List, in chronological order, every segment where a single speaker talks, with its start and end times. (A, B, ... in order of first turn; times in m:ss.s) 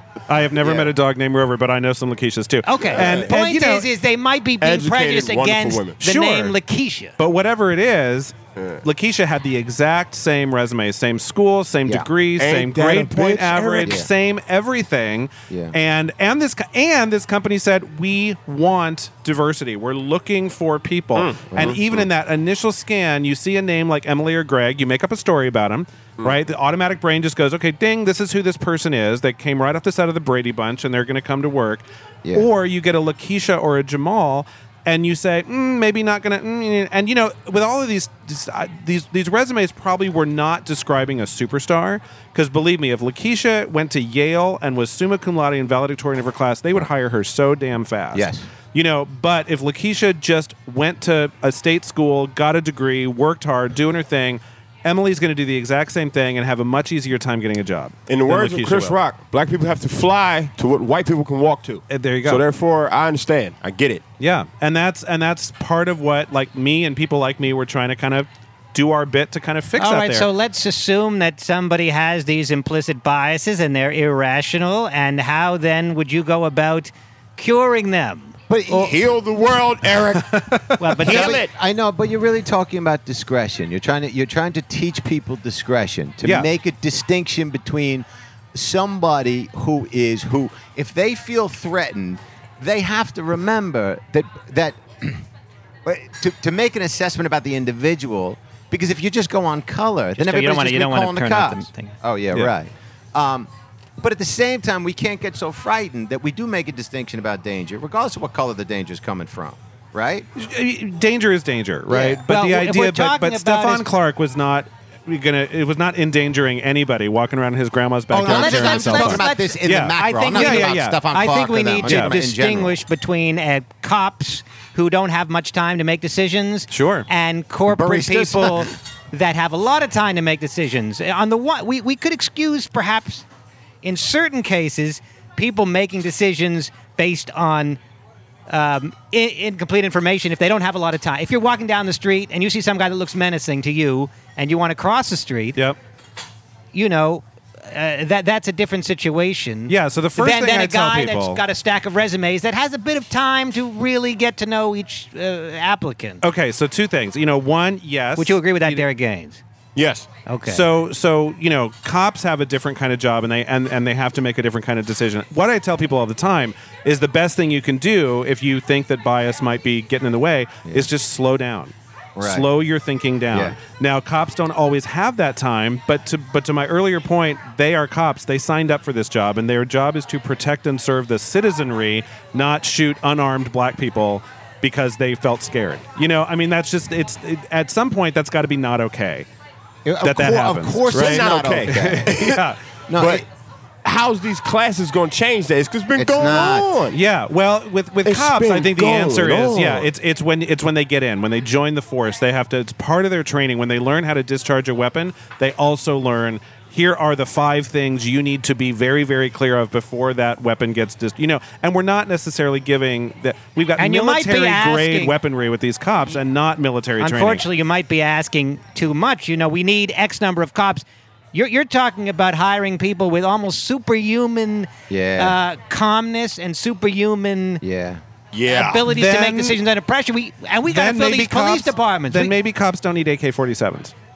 0:00.3-0:03.9 A
0:02.6-0:07.2 B
0:02.9-0:03.3 C
0:04.6-0:06.0 C
0:06.0-0:06.6 A
0:07.2-0:58.9 A
0:12.4-0:14.0 C
0:13.8-0:14.1 D
0:15.5-0:15.8 D
0:21.1-0:22.1 C
0:21.5-0:21.8 D
0:48.1-0:48.4 D
0:58.1-1:04.0 C
1:01.9-1:02.4 A
1:04.2-1:10.3 A
1:09.8-1:18.4 B
1:18.5-1:19.0 D
1:18.7-1:20.5 C
1:20.3-1:20.6 A
1:20.8-1:21.4 B
1:21.0-1:21.5 C
1:21.0-1:35.3 D
1:26.2-1:26.5 A
1:35.8-1:50.3 D
1:40.2-1:41.9 B
1:50.4-2:01.0 A
1:51.9-1:52.2 D
1:52.3-1:53.9 B
1:58.1-2:02.8 D
1:58.2-2:13.2 B
2:01.8-2:02.2 A
2:06.7-2:07.1 A
2:07.7-2:08.7 D
2:13.8-2:17.8 B
2:18.5-2:25.6 B
2:26.7-2:36.2 B
2:29.7-2:31.4 A
2:36.2-2:38.8 A
2:38.2-2:39.4 B
2:39.8-2:40.1 C
2:40.3-2:40.6 B
2:40.4-3:09.3 A
2:52.2-2:52.5 D
2:53.3-2:53.6 D
3:09.8-3:12.3 D
3:10.0-3:12.6 A
3:10.9-3:12.4 C
3:12.9-3:13.3 D
3:13.0-3:13.2 C
3:13.8-3:17.0 C
3:15.9-3:16.7 D
3:16.9-3:37.4 A
3:18.0-3:19.9 C
3:33.8-3:35.1 B
3:37.0-3:47.6 B
3:44.9-3:45.4 D
3:47.6-3:48.0 D
3:48.3-3:48.9 C
3:48.5-3:52.3 B
3:48.9-3:49.6 A
3:50.7-3:53.9 A